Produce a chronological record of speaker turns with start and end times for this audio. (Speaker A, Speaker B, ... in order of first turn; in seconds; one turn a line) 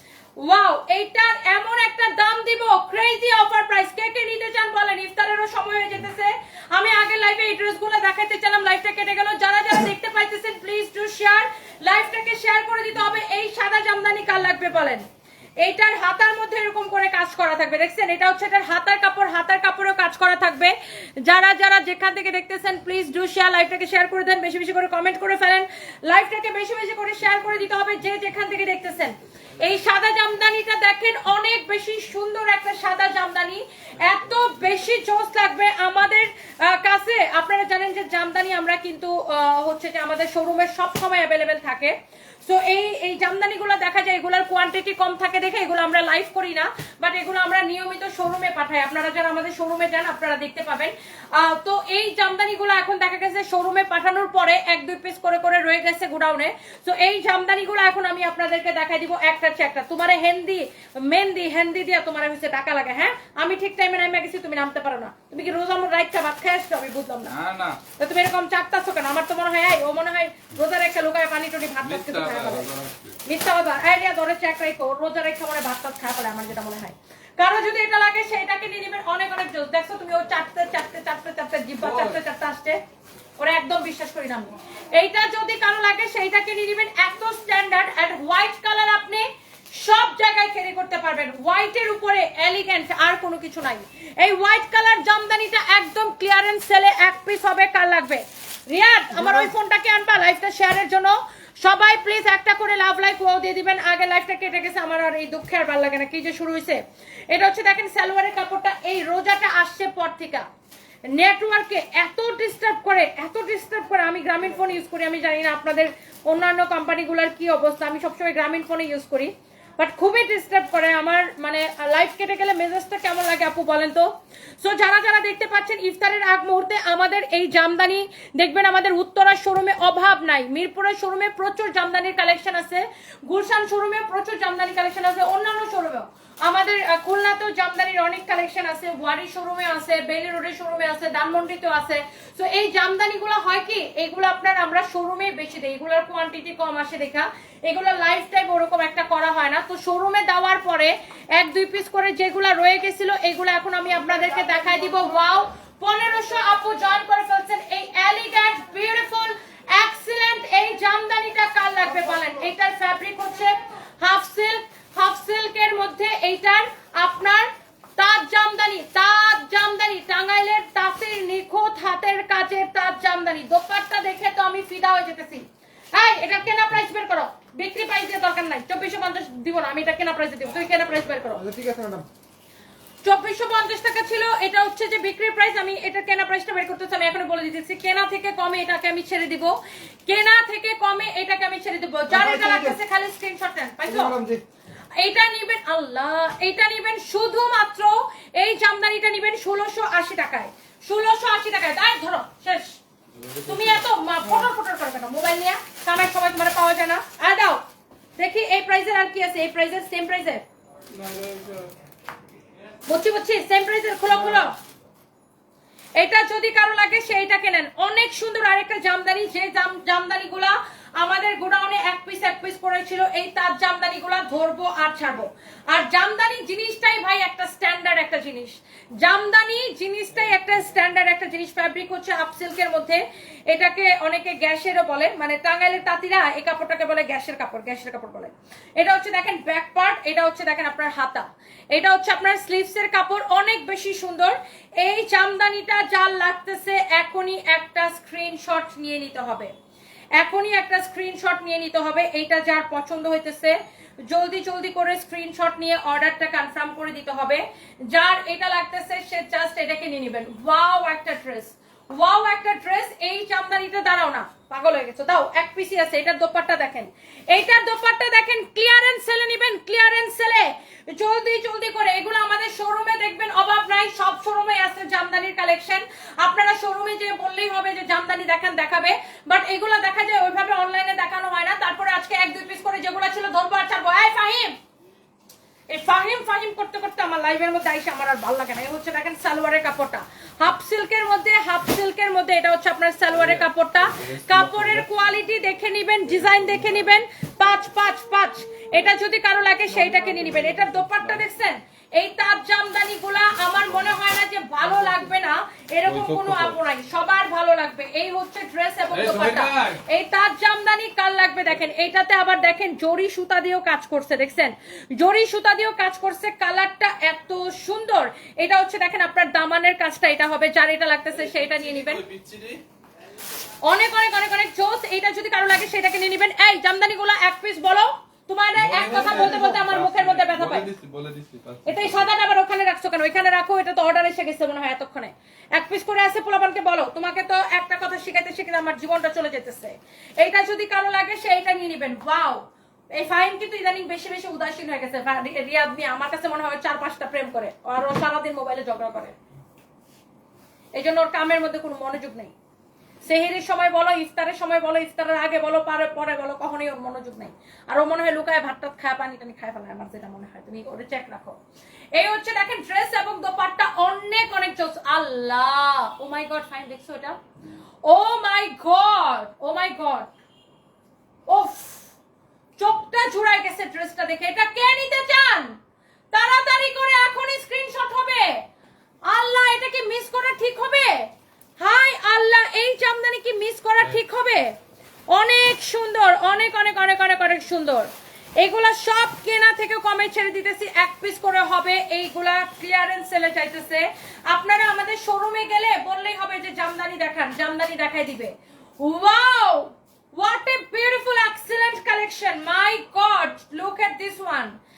Speaker A: 0.4-15.0
Speaker A: 15.6-42.0
Speaker A: 42.5-67.3
Speaker B: 67.3-67.8
Speaker A: 68.0-72.7
Speaker B: 71.8-73.2
Speaker A: 73.3-82.8
Speaker B: 81.8-82.2
Speaker A: 83.4-110.5
Speaker C: 99.1-99.5
Speaker A: 111.1-181.4
Speaker C: 181.3-182.1
Speaker A: 183.0-194.2
Speaker C: 192.1-192.8
Speaker C: 193.8-194.4
Speaker A: 195.0-202.8
Speaker B: 203.1-203.9
Speaker A: 203.5-207.6
Speaker C: 204.2-204.5
Speaker A: 208.2-210.4
Speaker C: 210.9-211.7
Speaker A: 212.9-214.5
Speaker C: 214.1-214.5
Speaker A: 216.0-249.5
Speaker A: 250.2-284.6
Speaker A: 285.7-322.0
Speaker B: 293.1-295.1
Speaker B: 296.0-297.0
Speaker C: 299.7-300.8
Speaker B: 303.5-303.8
Speaker C: 304.6-305.1
Speaker B: 305.9-306.6
Speaker B: 308.9-309.8
Speaker B: 321.1-322.6
Speaker A: 323.6-330.7
Speaker B: 328.6-332.1
Speaker C: 328.9-329.6
Speaker A: 331.7-349.1
Speaker A: 350.8-352.3
Speaker A: 353.1-361.4
Speaker A: 361.9-367.2
Speaker A: 367.9-370.1
Speaker A: 371.3-371.9
Speaker A: 372.6-375.6
Speaker A: 376.1-378.4
Speaker A: 379.1-384.5
Speaker A: 385.1-404.6